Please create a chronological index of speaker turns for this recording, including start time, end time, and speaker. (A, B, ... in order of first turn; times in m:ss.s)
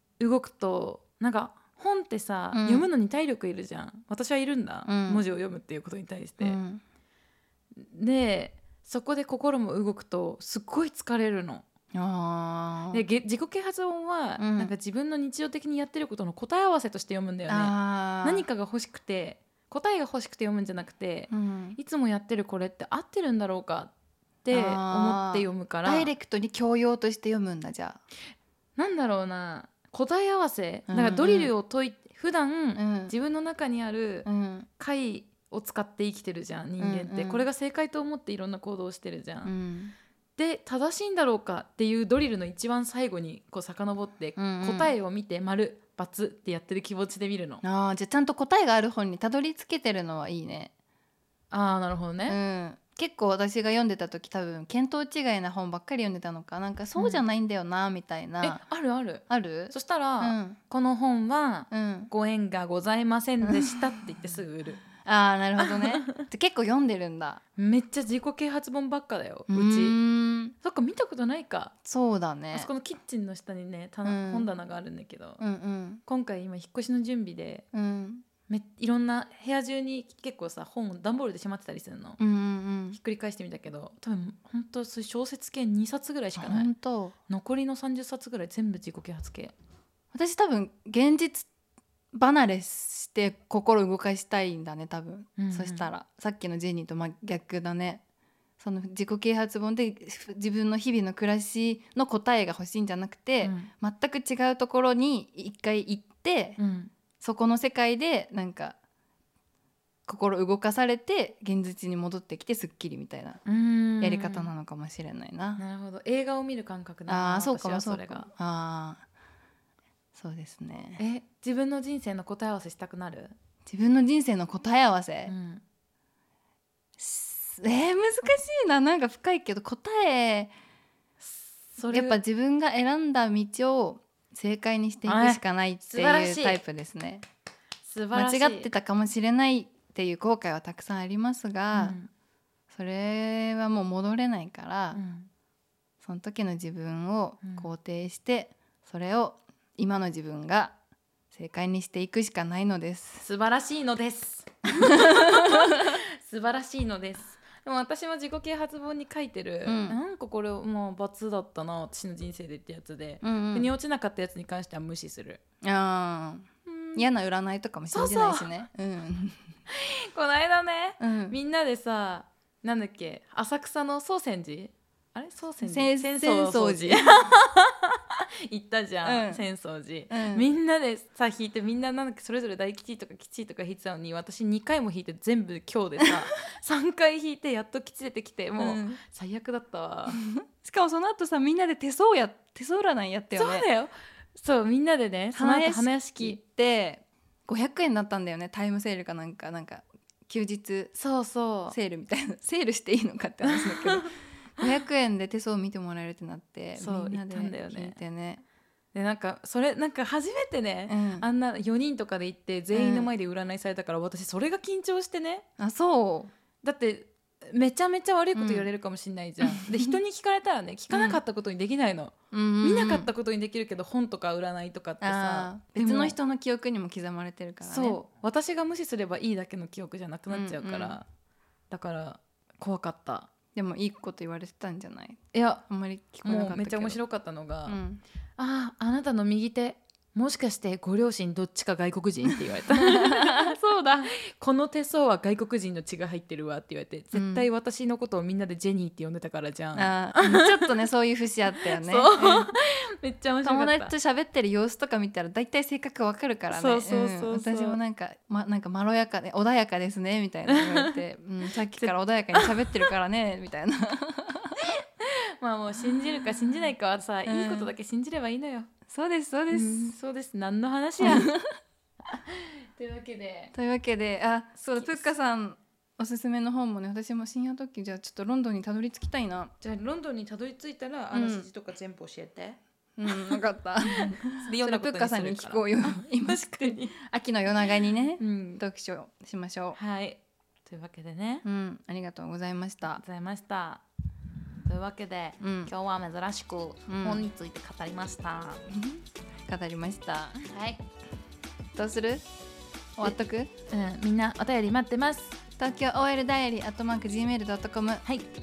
0:00.2-0:06.6 A
0:02.5-0:02.9 B
0:04.9-0:05.2 B
0:06.4-0:06.8 B
0:07.8-0:11.6 A
0:11.9-0:13.0 B
0:12.9-0:23.9 A
0:14.4-0:14.7 B
0:17.5-0:18.4 B
0:21.3-0:21.8 B
0:24.4-0:26.1 A
0:24.5-0:28.0 B
0:28.8-0:39.5 A
0:30.9-0:31.5 B
0:32.8-0:33.1 B
0:34.2-0:34.7 B
0:36.8-0:37.5 B
0:39.4-0:39.9 B
0:40.4-0:47.6 A
0:44.4-0:44.9 B
0:47.6-0:50.7 B
0:51.5-0:52.4 A
0:52.3-0:58.6 B
0:57.0-0:57.2 A
0:58.4-1:04.8 A
0:59.3-1:00.6 B
1:01.7-1:02.1 B
1:03.4-1:03.9 B
1:05.0-1:07.4 B
1:05.6-1:06.2 A
1:07.6-1:10.0 A
1:09.5-1:10.5 B
1:10.6-1:11.7 A
1:11.8-1:12.7 B
1:12.5-1:15.4 A
1:14.0-1:14.5 B
1:15.4-1:16.0 B
1:16.0-1:17.6 A
1:17.7-1:18.2 B
1:18.5-1:22.2 A
1:22.2-1:23.0 B
1:22.9-1:26.7 A
1:26.4-1:27.1 B
1:27.3-1:29.5 A
1:30.1-1:31.5 B
1:32.1-1:38.0 B
1:35.4-1:35.9 A
1:38.6-1:46.6 B
1:43.4-1:43.7 A
1:46.6-1:46.9 A
1:47.2-1:48.8 B
1:50.1-1:53.4 B
1:53.4-1:54.5 A
1:54.0-1:55.6 B
1:55.6-1:58.2 A
1:57.1-1:59.0 B
2:00.2-2:01.0 B
2:01.0-2:03.3 A
2:03.6-2:05.3 B
2:05.2-2:05.6 A
2:07.0-2:10.5 B
2:11.2-2:12.2 A
2:11.9-2:17.2 B
2:15.0-2:16.6 A
2:17.8-2:18.7 A
2:18.1-2:22.0 B
2:21.7-2:22.1 A
2:22.7-2:25.0 B
2:24.9-2:25.3 A
2:26.0-2:30.7 B
2:27.4-2:27.7 A
2:31.3-2:33.2 B
2:33.2-2:45.4 A
2:34.9-2:36.0 B
2:39.6-2:40.0 B
2:43.2-2:43.7 B
2:45.6-2:49.4 B
2:46.6-2:47.1 A
2:47.9-2:48.5 A
2:49.7-3:10.2 A
2:51.0-2:51.4 B
2:55.6-2:57.2 B
2:59.0-2:59.4 B
3:00.1-3:00.5 B
3:08.6-3:09.0 B
3:10.1-3:13.7 B
3:13.4-3:16.4 A
3:15.3-3:20.9 B
3:20.9-3:21.8 A
3:21.7-3:28.4 B
3:23.4-3:24.1 A
3:26.8-3:28.0 A
3:28.9-3:35.4 A
3:30.9-3:31.3 B
3:32.7-3:33.1 B
3:35.6-3:36.3 B
3:36.6-3:46.2 A
3:38.3-3:38.7 B
3:39.4-3:40.0 B
3:40.9-3:41.2 B
3:42.3-3:43.1 B
3:45.0-3:48.0 B
3:47.6-3:51.1 A
3:50.3-3:51.0 B
3:51.7-3:53.3 A
3:53.5-3:57.0 B
3:55.3-3:55.6 A
3:56.2-3:57.8 A
3:57.6-3:58.0 B
3:58.4-4:10.8 A
4:02.7-4:04.1 B
4:07.1-4:07.5 B
4:09.7-4:12.5 B
4:11.6-4:13.9 A
4:13.4-4:24.6 B
4:16.5-4:17.8 A
4:20.4-4:21.0 A
4:21.8-4:22.9 A
4:24.6-4:28.7 A
4:27.2-4:27.7 B
4:28.9-4:30.0 B
4:29.5-4:31.3 A
4:31.0-4:31.5 B
4:32.1-4:33.5 A
4:33.5-4:39.5 B
4:34.8-4:35.1 A
4:39.6-4:43.4 A
4:41.1-4:41.5 B
4:43.0-4:49.8 B
4:43.9-4:47.0 A
4:48.2-4:48.6 A
4:49.7-4:51.4 A
4:51.4-4:53.0 B
4:52.9-4:53.8 A
4:54.6-4:58.6 A
4:55.4-4:55.7 B
4:56.9-4:57.2 B
4:58.7-5:00.4 B
5:00.4-5:00.8 A
5:01.8-5:02.2 B
5:03.0-5:03.5 B
5:03.7-5:05.4 A
5:05.6-5:08.0 B